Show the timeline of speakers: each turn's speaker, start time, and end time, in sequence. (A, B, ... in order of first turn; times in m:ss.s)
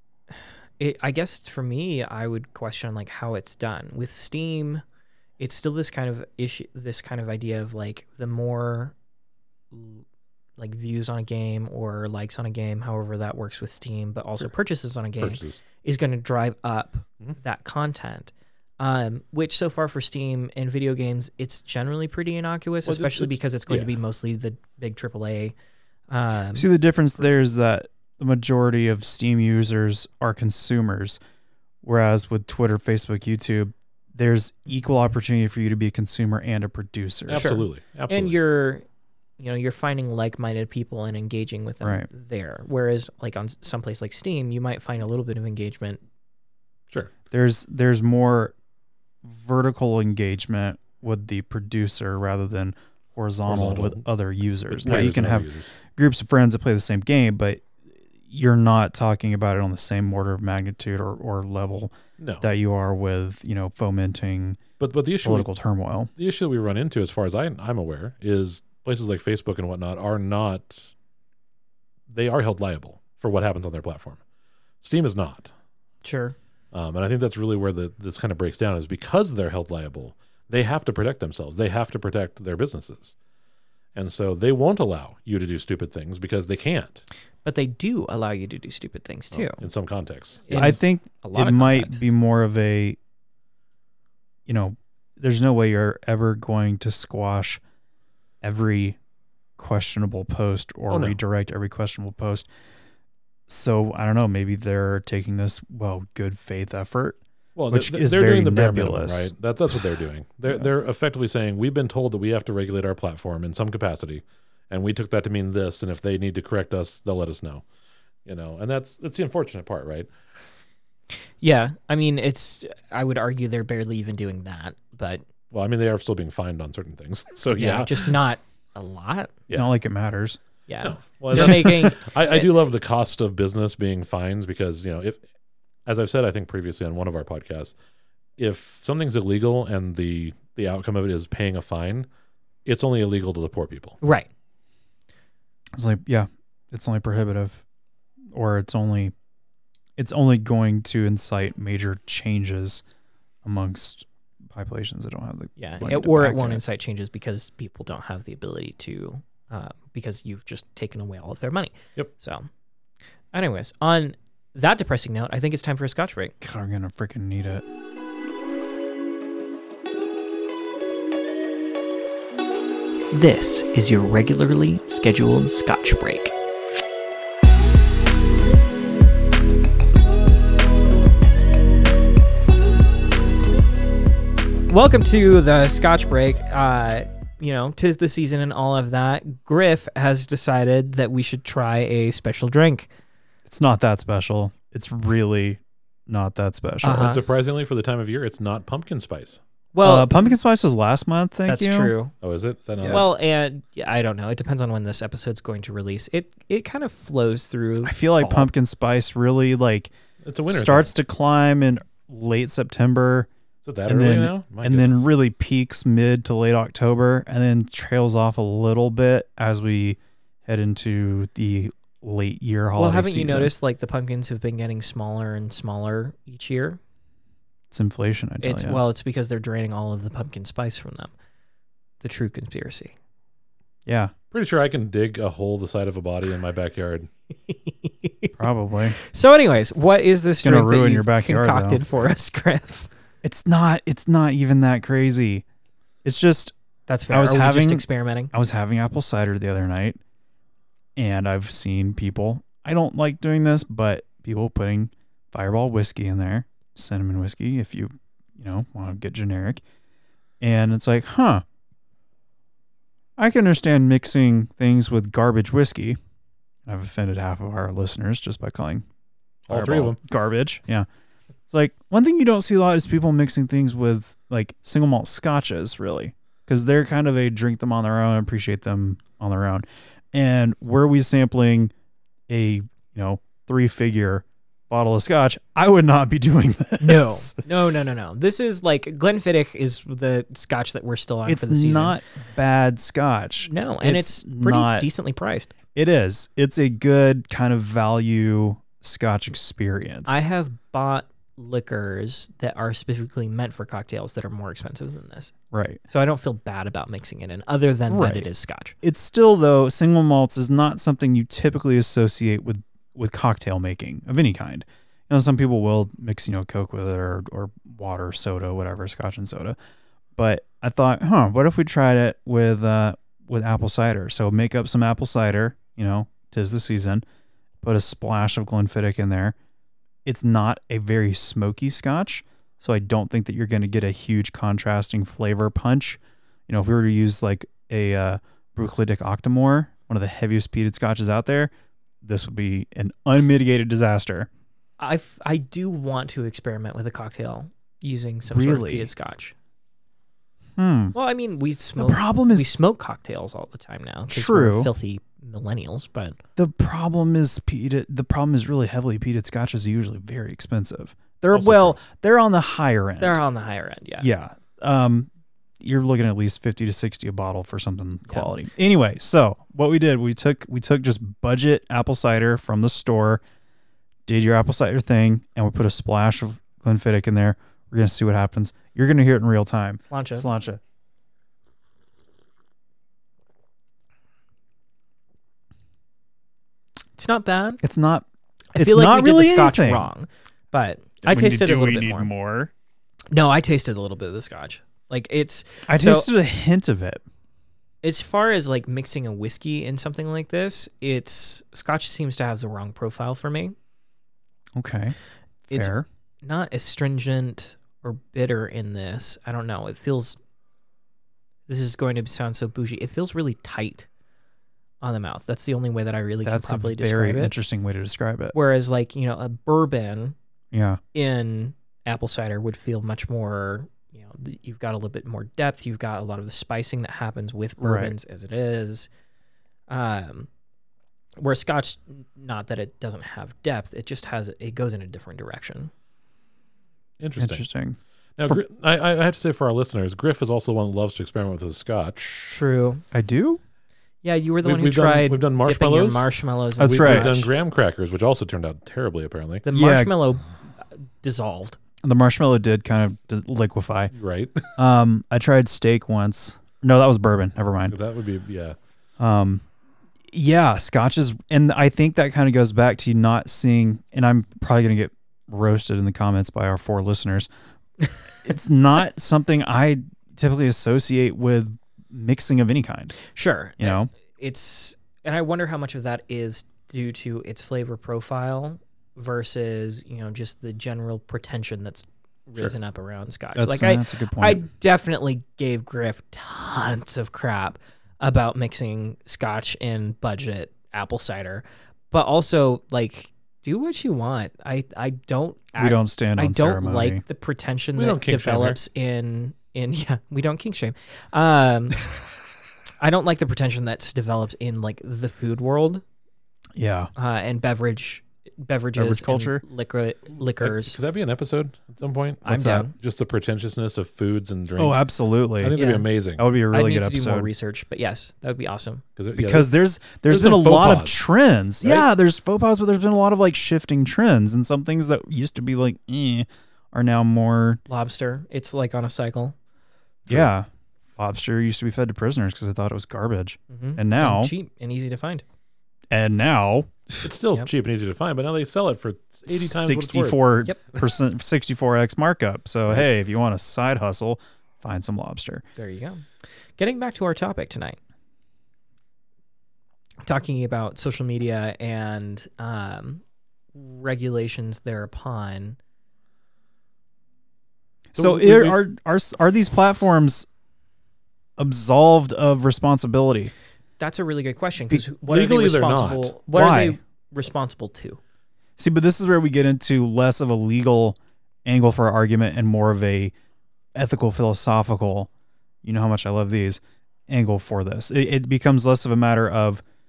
0:00.3-0:04.8 A
0:05.4-0:08.9 A
0:09.7-0:10.0 A
0:10.6-0:25.5 A
0:15.2-0:15.6 B
0:22.8-0:24.0 B
0:26.1-0:26.7 A
0:26.5-0:31.2 C
0:31.8-0:37.5 C
0:37.3-0:38.4 B
0:37.3-0:38.8 A
0:39.4-0:46.0 A
0:41.8-0:42.1 C
0:47.3-0:48.5 C
0:49.2-0:57.6 C
0:53.4-0:54.1 B
0:54.7-0:55.7 B
0:58.3-1:04.6 C
1:02.2-1:02.4 B
1:04.8-1:05.5 B
1:05.2-1:06.1 C
1:06.2-1:10.9 B
1:12.1-1:14.2 B
1:14.8-1:15.5 B
1:16.0-1:16.4 A
1:16.7-1:23.1 B
1:23.9-1:27.0 B
1:27.4-1:29.6 A
1:29.3-1:30.7 B
1:30.5-1:32.0 A
1:30.5-1:33.0 C
1:34.4-1:37.6 C
1:38.4-1:39.0 C
1:39.6-1:42.5 C
1:40.9-1:41.2 B
1:43.5-1:47.2 C
1:47.6-1:57.6 B
1:47.7-1:49.3 C
1:58.2-2:00.1 B
2:01.4-2:05.2 A
2:05.5-2:08.1 B
2:07.6-2:09.3 A
2:09.5-2:10.4 C
2:10.7-2:12.5 A
2:10.8-2:15.2 B
2:11.4-2:11.7 C
2:15.8-2:17.7 B
2:18.4-2:22.1 B
2:22.6-2:24.0 B
2:24.0-2:24.3 A
2:25.7-2:27.6 C
2:28.3-2:29.1 C
2:30.0-2:32.8 C
2:33.4-2:36.6 C
2:35.6-2:42.5 A
2:43.3-2:46.3 A
2:46.4-2:47.6 C
2:53.1-2:56.3 A
3:04.7-3:12.9 A
3:13.4-3:17.1 C
3:16.8-3:17.2 A
3:16.9-3:19.4 B
3:19.7-3:20.4 A
3:19.8-3:21.9 C
3:21.5-3:22.1 A
3:22.2-3:23.1 B
3:22.8-3:23.0 C
3:22.8-3:28.5 A
3:27.8-3:29.9 C
3:30.2-3:30.9 B
3:30.5-3:33.3 C
3:33.6-3:35.0 B
3:33.8-3:43.5 C
3:42.8-3:46.8 A
3:47.7-3:48.8 C
3:48.4-3:51.1 A
3:52.0-3:52.9 A
3:53.8-3:54.1 C
3:54.3-3:57.1 B
3:57.5-3:58.3 A
3:58.4-3:59.0 C
3:59.0-4:02.9 A
4:00.4-4:01.8 C
4:03.2-4:05.4 C
4:06.0-4:06.5 C
4:06.9-4:08.3 A
4:07.1-4:10.0 C
4:11.0-4:19.6 C
4:20.4-4:21.4 C
4:23.2-4:26.0 C
4:26.6-4:28.8 C
4:29.5-4:30.0 B
4:29.5-4:30.9 C
4:31.5-4:41.7 C
4:42.3-4:47.4 C
4:46.8-4:52.0 A
4:51.2-4:54.9 C
4:53.4-4:55.5 A
4:55.7-5:00.2 C
5:00.1-5:05.3 A
5:05.5-5:05.8 C
5:05.9-5:08.7 A
5:07.9-5:08.3 C
5:08.8-5:19.6 C
5:20.2-5:27.0 C
5:27.6-5:29.4 C
5:30.0-5:44.3 C
5:44.8-5:49.3 A
5:48.3-5:48.9 C
5:50.6-5:51.0 C
5:50.9-5:56.2 A
5:51.8-5:52.5 C
5:54.1-5:54.7 C
5:56.4-6:03.2 C
6:01.3-6:01.8 B
6:03.0-6:04.1 A
6:04.0-6:05.1 C
6:05.6-6:13.2 C
6:14.1-6:20.6 C
6:19.9-6:20.3 A
6:27.0-6:27.6 A
6:27.6-6:29.9 C
6:28.5-6:32.1 A
6:31.0-6:32.5 C
6:33.1-6:36.1 A
6:35.7-6:37.0 C
6:37.8-6:43.5 A
6:44.6-6:45.0 C
6:45.5-6:45.8 C
6:45.5-6:50.2 A
6:51.5-6:53.9 A
6:54.8-6:57.3 A
6:56.2-6:58.3 C
6:58.3-7:00.2 A
7:00.5-7:00.8 C
7:00.9-7:08.9 A
7:07.6-7:07.9 C
7:09.7-7:10.3 A
7:11.2-7:15.7 A
7:17.0-7:17.4 B
7:17.2-7:18.4 C
7:18.2-7:22.4 B
7:22.3-7:22.8 A
7:22.9-7:23.4 C
7:24.0-7:27.3 A
7:24.4-7:29.4 B
7:26.6-7:27.1 C
7:29.4-7:31.6 A
7:29.5-7:29.9 C
7:31.8-7:33.9 C
7:33.9-7:34.6 B
7:34.6-7:37.8 C
7:37.7-7:38.6 B
7:39.0-7:39.4 C
7:40.1-7:47.3 C
7:48.2-7:53.0 C
7:53.0-8:21.9 A
7:53.6-7:53.9 C
8:03.3-8:04.4 C
8:15.6-8:17.0 C
8:17.8-8:18.6 B
8:22.8-8:25.8 A
8:26.6-8:26.9 C
8:27.0-8:30.8 A
8:28.8-8:29.4 C
8:30.4-8:34.8 B
8:32.2-8:32.7 A
8:32.3-8:32.6 C
8:34.6-8:35.6 C
8:35.4-8:36.2 B
8:35.6-8:35.9 A
8:36.2-8:37.3 C
8:36.5-8:38.8 A
8:39.0-8:39.5 B
8:39.2-8:47.6 C
8:40.0-8:41.0 B
8:47.7-8:49.3 A
8:50.1-8:54.3 C
8:53.5-8:55.2 A
8:55.9-8:57.1 C
8:57.0-9:00.2 B
8:59.3-9:05.4 C
9:00.4-9:00.7 A
9:05.6-9:07.8 A
9:10.0-9:13.0 A
9:13.5-9:15.6 A
9:17.9-9:20.3 C
9:18.0-9:18.6 B
9:21.4-9:23.3 C
9:23.8-9:28.0 A
9:25.1-9:26.1 B
9:26.3-9:26.8 C
9:28.6-9:33.1 C
9:33.7-9:35.1 C
9:35.6-9:39.6 C